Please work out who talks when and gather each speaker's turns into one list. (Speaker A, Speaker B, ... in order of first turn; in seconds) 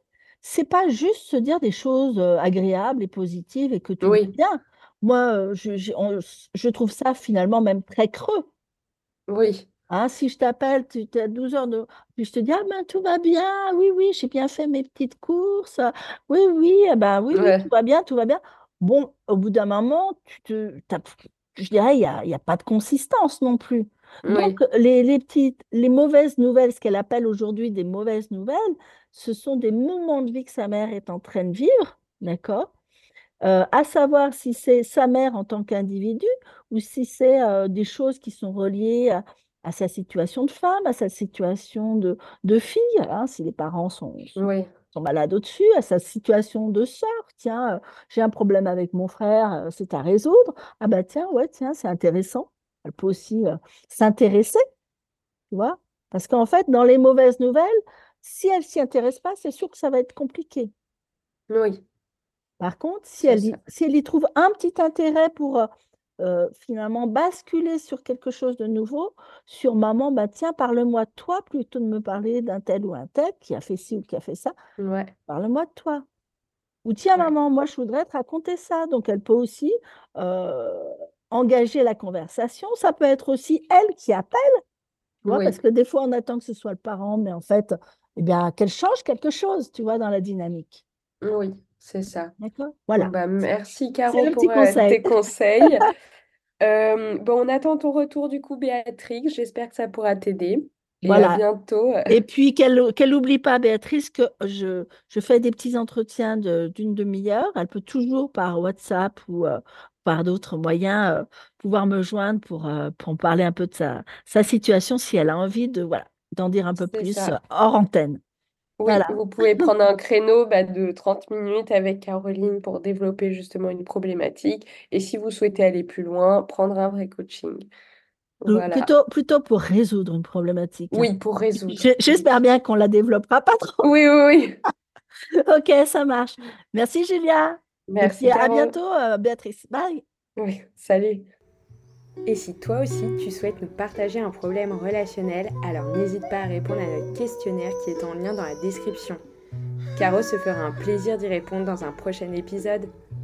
Speaker A: 0.4-8.5, 9.9-32.7, 33.4-54.6, 55.5-60.7, 62.6-74.5, 75.3-76.0, 76.8-84.6, 85.2-90.8, 92.4-93.1, 94.1-95.0, 101.0-101.4, 102.1-118.2, 118.8-119.7, 128.5-133.9, 135.4-140.0
Speaker B: 4.0-4.3, 9.3-9.7, 17.3-17.6, 24.2-24.6, 44.4-44.7, 61.5-61.8, 63.3-63.6, 74.8-75.1, 85.2-85.6, 91.2-92.3, 93.0-95.9, 96.6-102.2, 116.9-117.3, 118.8-127.7, 128.4-128.9, 130.9-132.2, 133.8-134.6, 137.9-138.7, 140.4-141.3
Speaker C: 142.2-149.2, 149.9-152.9